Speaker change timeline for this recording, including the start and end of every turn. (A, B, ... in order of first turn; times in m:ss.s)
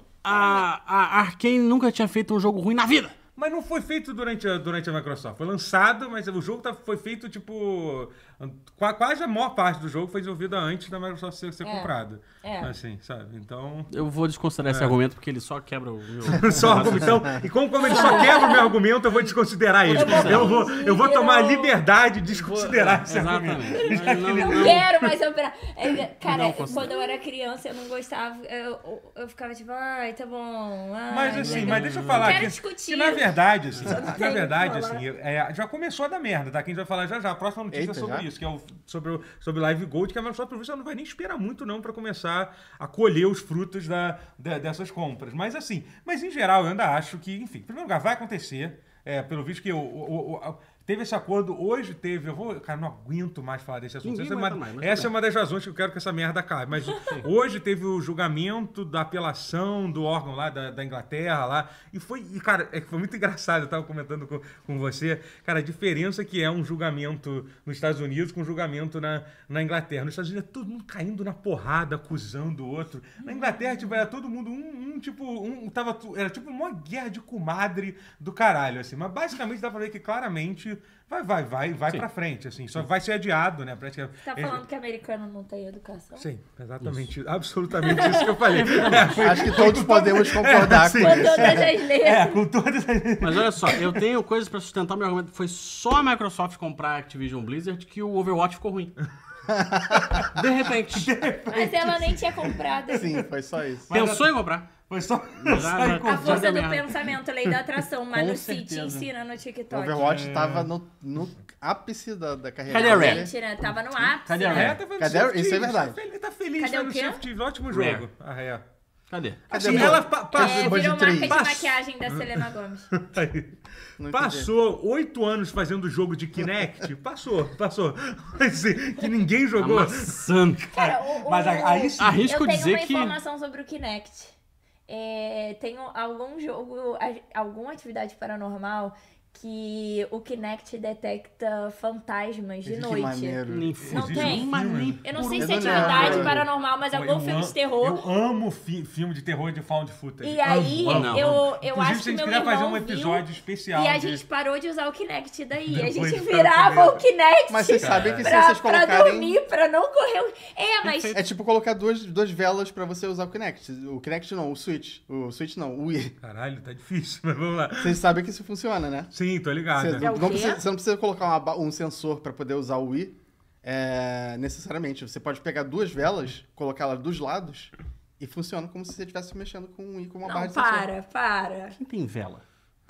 0:00.2-0:03.2 A
0:03.4-0:13.9 B
0:11.6-0:11.9 C
0:12.4-0:12.7 C
0:13.9-0:18.6 A
0:14.7-0:15.0 B
0:16.2-0:24.9 B
0:16.8-0:17.4 D
0:17.8-0:18.7 C
0:19.8-0:20.6 A
0:19.9-0:21.8 C
0:22.3-0:24.9 A
0:23.8-0:35.0 C
0:26.2-0:27.1 A
0:31.1-1:24.6 B
0:31.2-0:32.5 A
0:33.7-0:34.0 A
0:37.7-0:38.3 D
0:54.0-0:55.1 A
0:57.0-0:57.3 A
1:13.2-1:13.8 C
1:24.2-1:26.3 C
1:26.2-1:34.0 B
1:26.8-1:27.1 A
1:27.8-1:29.0 C
1:28.4-1:29.5 A
1:29.2-1:31.7 D
1:30.9-1:32.4 C
1:33.2-1:38.9 A
1:39.5-1:40.2 D
1:40.0-1:43.2 B
1:40.2-1:41.1 A
1:41.5-1:43.2 C
1:42.9-1:43.9 D
1:43.9-1:46.6 B
1:43.9-1:44.7 A
1:45.4-1:47.0 A
1:46.0-1:50.1 C
1:48.1-1:49.1 A
1:49.7-1:53.3 D
1:50.0-1:50.7 B
1:52.7-1:53.3 A
1:52.7-1:54.8 C
1:54.2-1:54.8 A
1:54.5-1:58.6 B
1:55.0-1:56.0 D
1:56.6-1:57.2 C
1:57.7-1:58.0 A
1:59.1-2:00.0 A
1:59.5-2:01.4 D
1:59.5-2:12.3 B
2:00.3-2:02.9 C
2:04.0-2:04.5 D
2:09.6-2:10.7 A
2:10.7-2:14.3 C
2:12.0-2:13.2 A
2:14.9-2:23.4 C
2:22.6-2:23.7 D
2:23.5-2:26.4 A
2:23.8-2:25.0 B
2:23.9-2:28.0 C
2:25.4-2:26.4 D
2:26.9-2:34.2 B
2:30.2-2:41.2 C
2:30.8-2:31.4 A
2:35.7-2:37.0 B
2:37.5-2:39.4 D
2:37.8-2:38.3 B
2:40.8-2:41.2 A
2:41.1-2:46.1 D
2:46.2-2:48.0 B
2:47.8-2:49.1 D
2:49.1-2:50.1 B
2:49.7-3:00.9 D
2:50.0-2:50.6 C
3:00.2-3:01.8 C
3:01.7-3:02.4 A